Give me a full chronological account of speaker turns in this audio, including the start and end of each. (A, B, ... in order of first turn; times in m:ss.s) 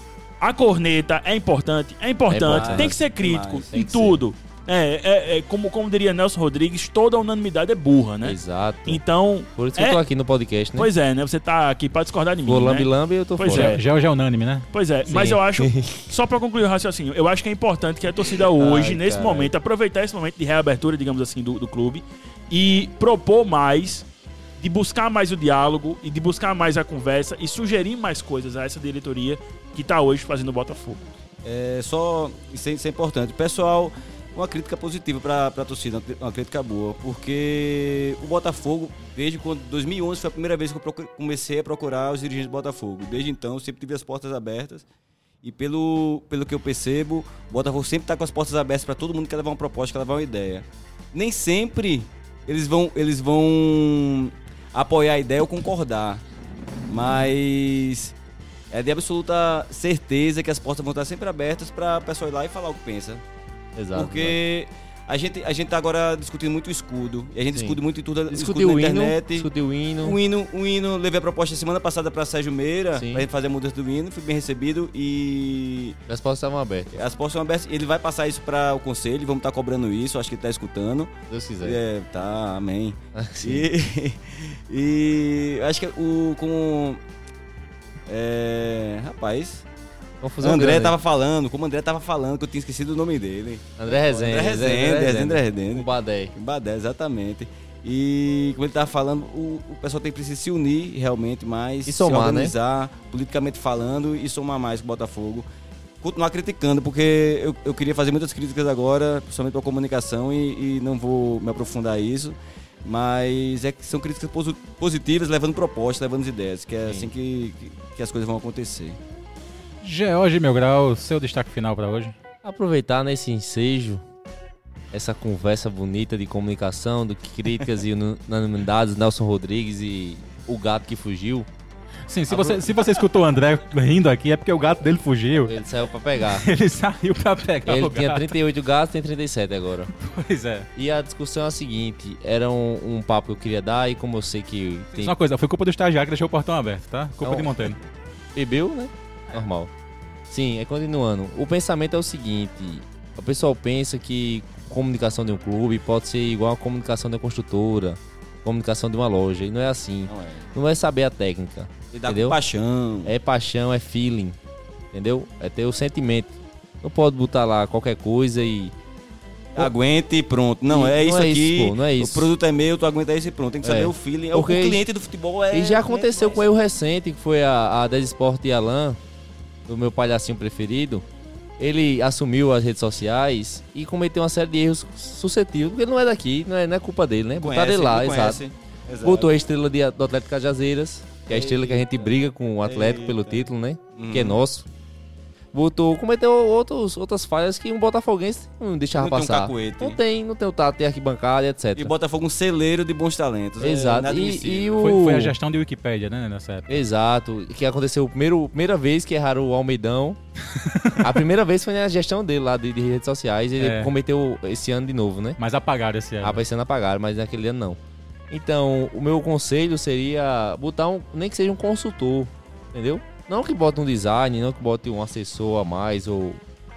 0:00.4-0:10.0 A
0:02.3-0:03.0 B
0:02.5-0:03.7 C
0:03.7-0:04.2 B
0:08.2-0:09.0 B
0:09.6-0:10.9 B
0:10.8-0:13.8 A
0:12.5-0:13.8 B
0:13.4-0:14.7 D
0:14.7-0:24.1 A
0:15.1-0:16.1 B
0:18.6-0:19.5 B
0:24.6-0:31.0 A
0:31.4-0:44.8 C
0:45.4-0:56.2 C
0:56.9-0:58.2 C
0:58.7-1:03.2 C
1:03.8-1:04.4 B
1:04.0-1:09.5 C
1:07.5-1:10.2 B
1:10.0-1:16.0 C
1:13.0-1:13.3 B
1:16.1-1:16.9 B
1:16.9-1:27.0 C
1:21.3-1:21.8 B
1:23.2-1:23.7 B
1:28.1-1:29.6 C
1:30.2-1:31.0 B
1:30.4-1:45.5 C
1:33.8-1:36.3 B
1:41.9-1:42.5 B
1:46.0-1:59.0 C
1:59.8-2:02.2 D
2:02.4-2:04.0 B
2:04.9-2:11.5 B
2:12.1-2:15.6 D
2:12.3-2:12.8 B
2:15.5-2:16.5 B
2:16.3-2:18.4 D
2:17.7-2:19.9 B
2:20.0-2:20.7 D
2:20.8-2:25.1 B
2:25.0-2:27.8 D
2:27.2-2:27.5 B
2:28.4-2:29.7 B
2:30.3-2:42.4 B
2:40.1-2:40.5 C
2:41.9-2:43.1 C
2:43.1-2:44.4 B
2:44.9-2:48.7 B
2:49.6-2:56.4 C
2:50.7-2:52.3 B
2:53.6-2:54.8 B
2:55.5-2:59.0 B
2:59.7-3:01.0 B
3:01.6-3:08.4 B
3:07.4-3:09.4 C
3:09.0-3:14.7 B
3:11.3-3:13.4 C
3:14.0-3:14.4 C
3:15.5-3:21.9 B
3:19.0-3:20.0 C
3:21.8-3:25.0 C
3:23.6-3:25.4 B
3:24.8-3:26.7 D
3:26.7-3:30.2 B
3:30.5-3:31.2 D
3:31.0-3:35.4 B
3:33.6-3:33.9 D
3:35.4-3:36.4 D
3:36.2-3:37.8 B
3:38.3-3:46.4 B